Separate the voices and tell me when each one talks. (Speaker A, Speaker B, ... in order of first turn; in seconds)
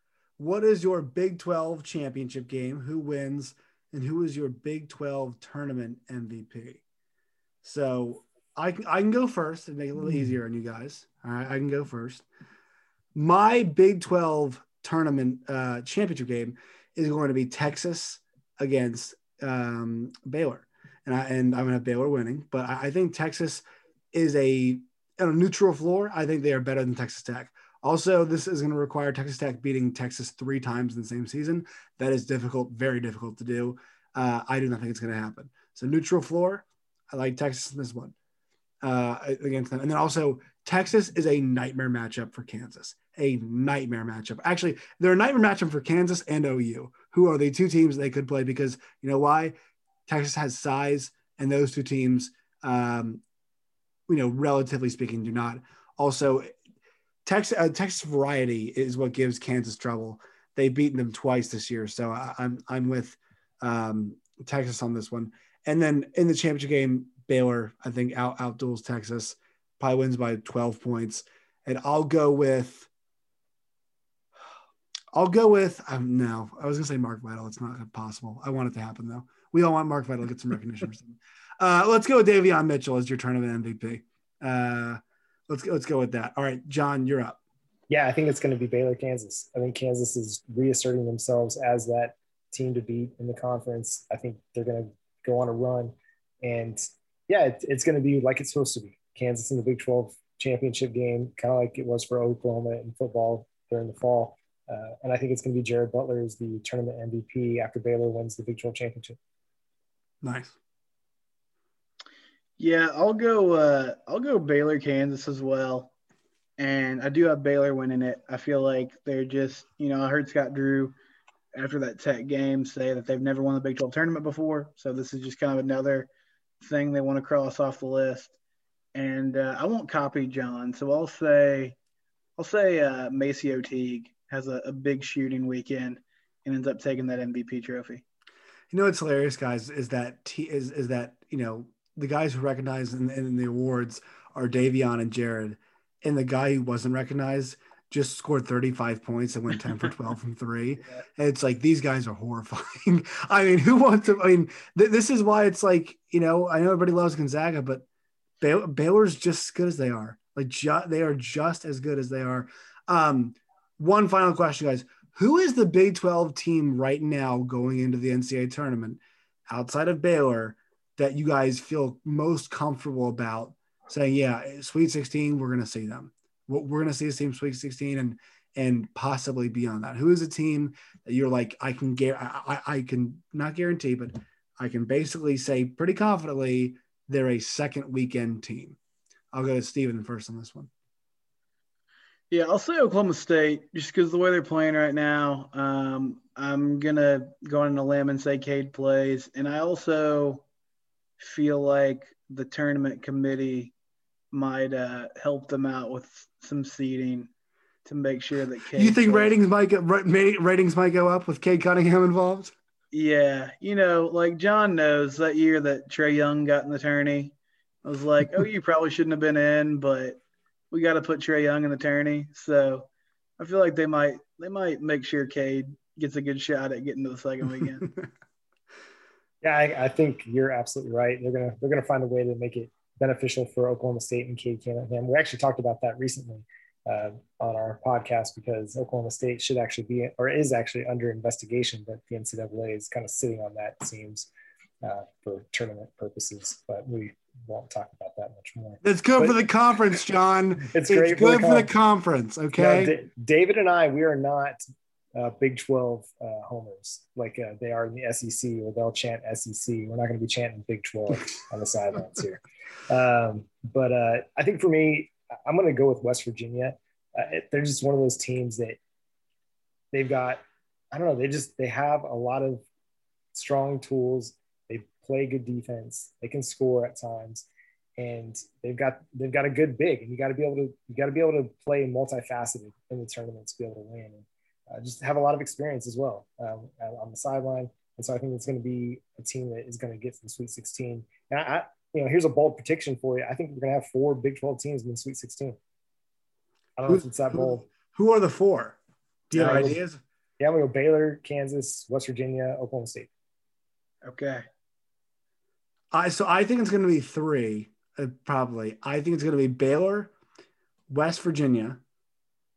Speaker A: 0.4-6.8, 7.6-12.2, 13.1-38.1, 38.8-49.5, 50.1-53.2, 54.1-56.5, 57.2-72.9, 75.1-87.4, 110.2-110.5, 138.7-157.8, 158.4-188.8, 189.3-190.7, 208.7-212.5, 248.8-252.9, 296.9-298.8, 299.3-300.0, 305.9-310.1, 310.9-311.8
Speaker B: 87.9-109.2, 229.4-244.3, 244.8-249.4, 250.6-251.7, 252.6-254.6, 255.1-268.8, 269.9-272.6, 273.3-277.4, 278.0-295.6, 296.8-297.6, 299.3-299.8, 300.4-303.1
Speaker C: 112.6-115.9, 116.6-120.9, 121.5-126.1, 126.6-128.3, 128.9-131.8, 132.4-138.0, 192.3-200.4, 201.2-203.7, 204.3-207.3, 207.8-209.3, 212.9-217.3, 217.8-220.2, 220.7-222.9, 223.4-227.8, 304.0-304.4